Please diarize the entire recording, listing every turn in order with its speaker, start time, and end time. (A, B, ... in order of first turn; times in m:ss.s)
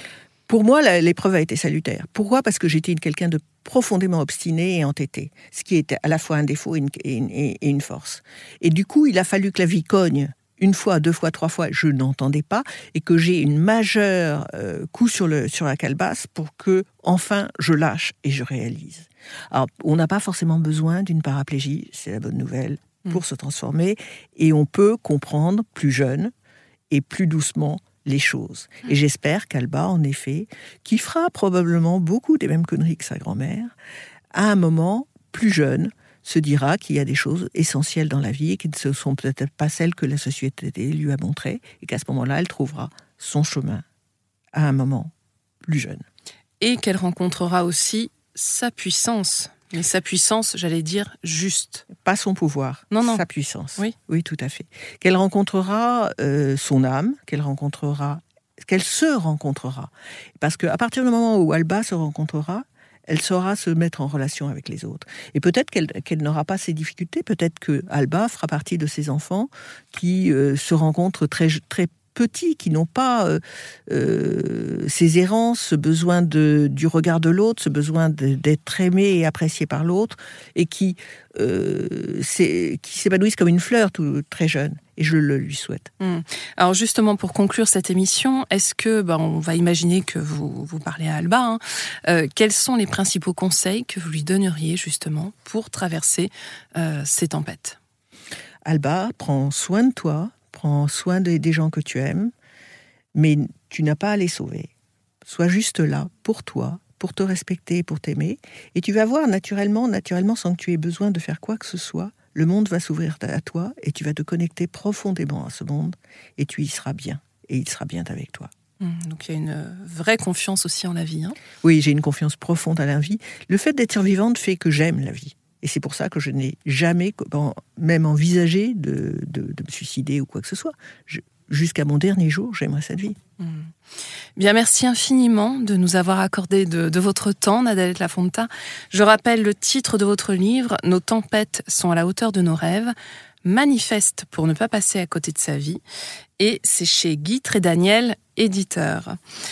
0:00.5-0:26.3 A
0:26.9-0:33.7 A
0:34.3-0:43.8 A
0:44.5-0:45.1 A
0:45.6-0:46.0 A
0:46.6-0:51.8 B
0:52.0-1:25.9 A
0:52.9-0:53.2 B
1:26.0-1:37.8 B
1:38.6-1:42.3 A
1:43.1-1:44.7 A
1:45.2-1:58.5 A
1:58.8-2:01.4 B
2:01.6-2:13.2 A
2:13.4-2:13.7 B
2:14.4-2:25.8 B
2:26.4-2:29.2 B